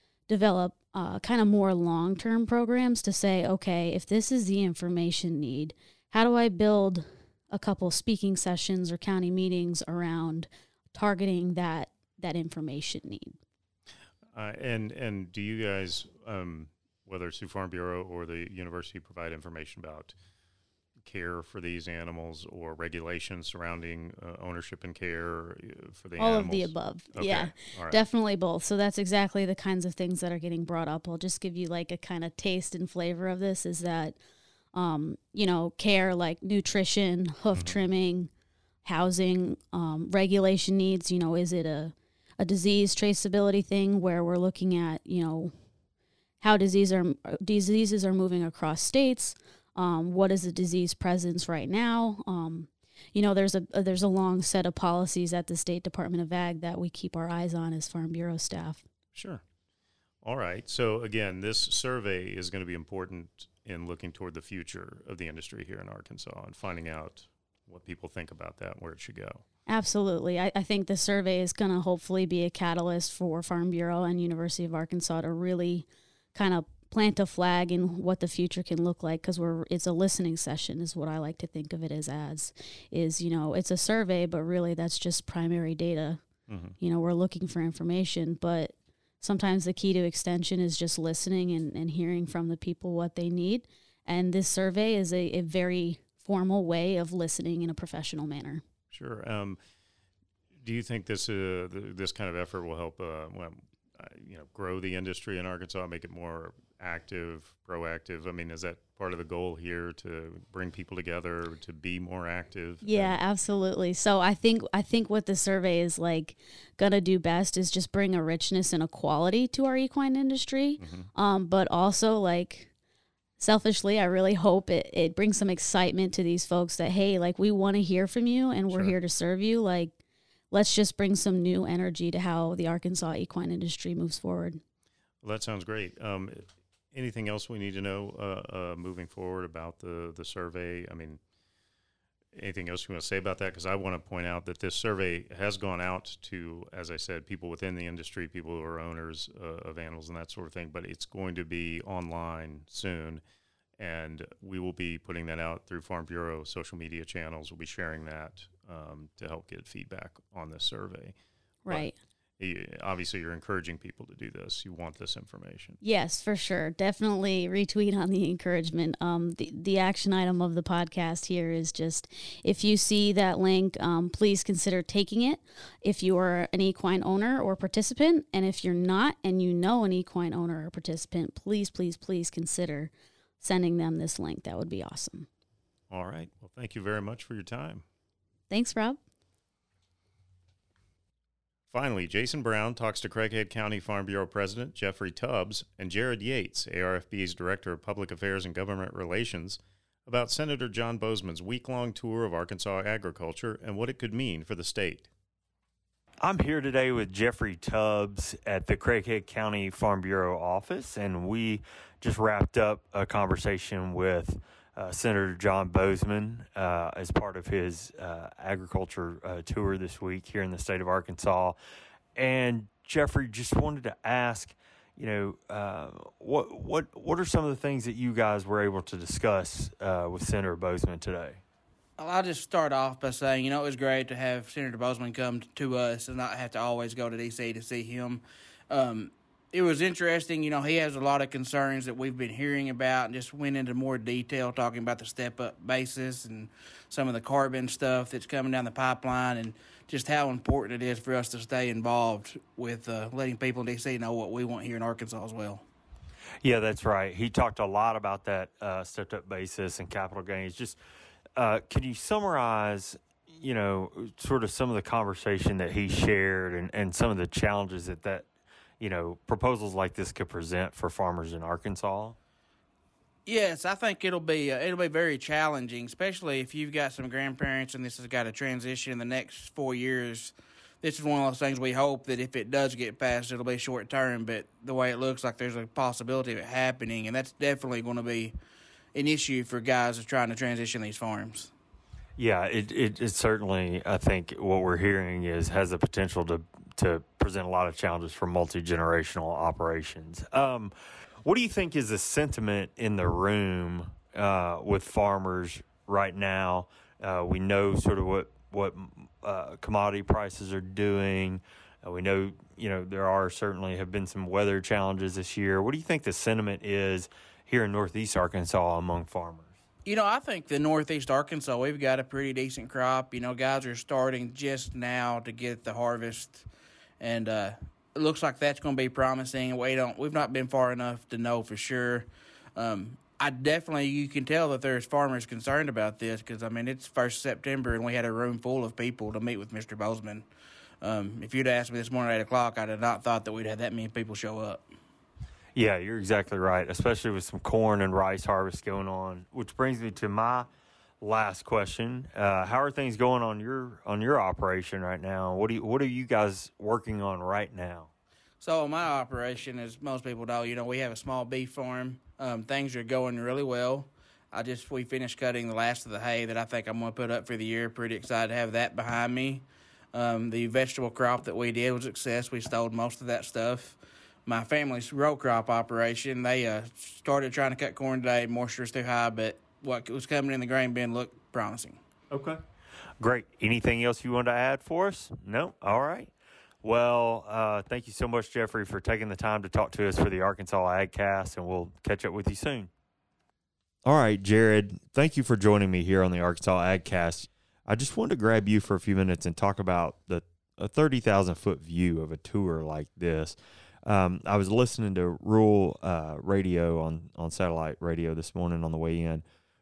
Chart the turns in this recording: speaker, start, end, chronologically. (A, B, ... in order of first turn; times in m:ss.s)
0:00.3-0:13.4 A
0:14.3-0:20.1 B
0:21.0-0:28.0 B
0:26.2-0:34.2 A
0:34.7-0:38.3 A
0:38.8-0:45.5 A
0:46.4-0:58.8 A
0:59.1-0:59.4 B
1:00.2-1:09.4 B
1:09.7-1:26.2 A
1:26.5-1:26.8 B
1:26.8-1:38.6 A
1:38.9-1:39.6 B
1:40.6-1:53.2 B
1:52.8-2:02.7 A
2:00.8-2:01.1 B
2:03.4-2:10.0 A
2:10.5-2:14.6 A
2:15.2-2:21.2 B
2:22.3-2:33.2 B
2:33.8-2:41.2 B
2:41.7-2:42.0 A
2:41.7-2:45.8 B
2:45.8-3:05.3 A
3:05.9-3:07.8 B
3:08.5-3:09.0 A
3:11.7-3:25.1 B
3:26.2-3:41.6 C
3:42.2-3:51.4 C
3:52.0-4:15.6 D
4:16.4-4:20.8 C
4:21.4-4:28.3 C
4:28.8-4:32.2 C
4:33.3-4:48.4 D
4:48.9-4:51.5 D
4:52.2-5:00.7 C
5:01.2-5:19.6 C
5:19.9-5:26.5 D
5:27.0-5:40.3 D
5:40.8-5:44.7 D
5:45.6-5:50.5 C
5:51.0-5:57.9 C
5:58.4-6:21.8 D
6:22.1-6:22.4 C
6:23.0-6:32.7 C
6:33.8-6:49.2 C